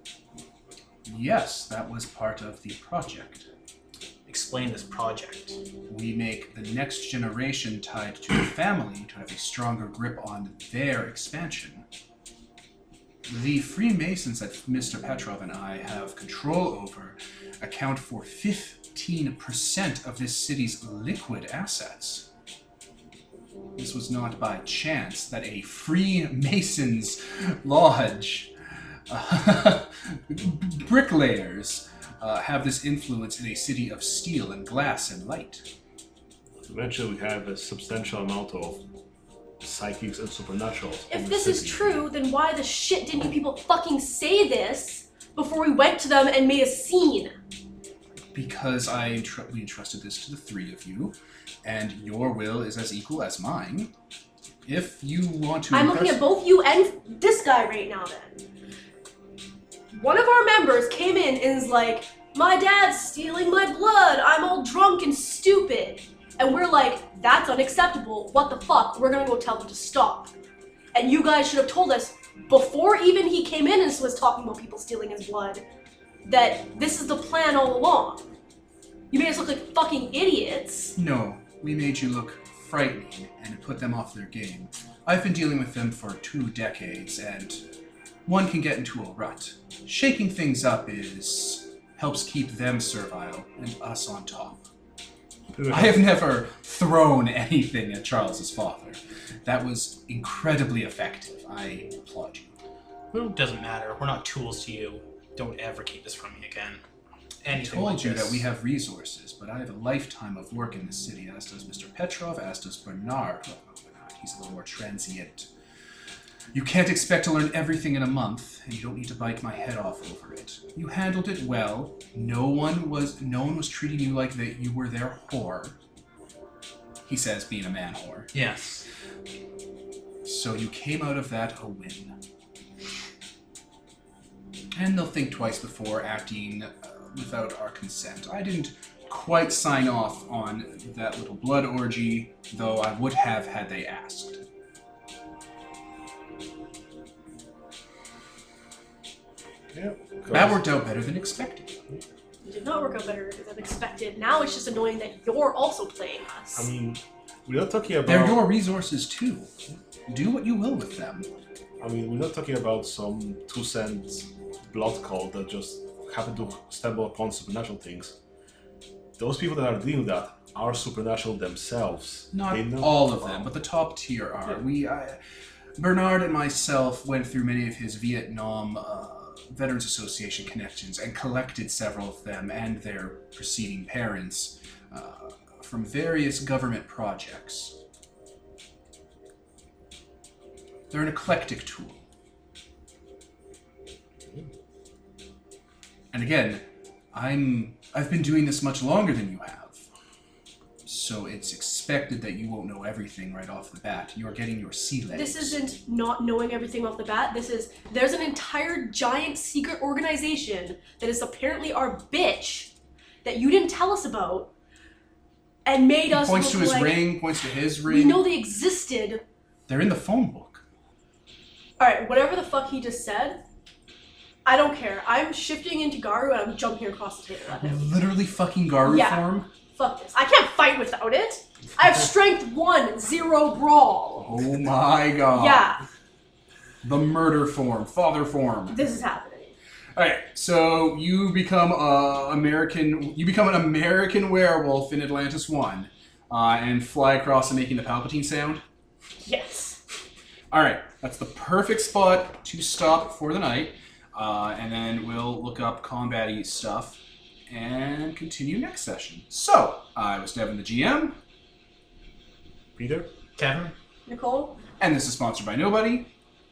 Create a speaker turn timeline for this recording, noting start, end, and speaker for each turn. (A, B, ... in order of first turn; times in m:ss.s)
0:01.0-0:03.5 A
0:04.2-0:05.6 B
0:05.9-0:11.8 A
0:13.3-0:22.3 A
0:23.8-0:28.5 A
0:29.1-0:35.6 A
0:36.6-0:38.8 C
0:39.6-0:42.1 C
0:41.1-0:47.4 D
0:48.3-0:53.9 A
0:54.6-0:56.2 A
0:55.7-0:58.4 D
0:59.9-1:10.3 D
1:10.9-1:15.6 D
1:16.2-1:18.2 D
1:19.1-1:21.0 D
1:21.0-1:27.6 A
1:28.2-1:34.6 A
1:35.5-1:36.2 C
1:35.7-1:42.5 A
1:43.2-1:46.8 B
1:47.4-1:48.4 B
1:47.5-1:55.5 A
1:56.5-2:05.8 A
2:07.0-2:08.3 A
2:08.3-2:08.8 B
2:10.2-2:12.2 A
2:14.7-2:24.4 A
2:29.7-2:30.6 C
2:30.3-2:31.8 A
2:32.4-2:36.7 D
2:36.6-2:38.6 C
2:38.0-2:39.5 A
2:40.1-2:41.3 A
2:41.8-2:48.2 C
2:49.2-2:53.4 C
2:52.3-2:55.2 A
2:55.8-3:07.8 A
3:10.9-3:12.0 A
3:16.1-3:19.8 A
3:20.8-3:25.6 A
3:25.1-3:32.7 D
3:33.2-3:34.5 D
3:35.6-3:37.2 D
3:36.1-3:38.3 A
3:37.8-3:39.2 D
3:39.7-3:40.6 A
3:41.8-3:43.4 D
3:44.4-3:47.8 D
3:47.6-3:49.5 A
3:48.8-3:54.3 D
3:54.2-3:55.8 A
3:55.3-3:55.8 D
3:56.8-3:58.8 A
3:58.7-3:59.5 D
4:00.0-4:08.6 A
4:09.2-4:09.8 D
4:10.5-4:21.2 A
4:22.8-4:23.1 C
4:23.4-4:23.7 B
4:24.0-4:24.6 D
4:24.8-4:26.1 A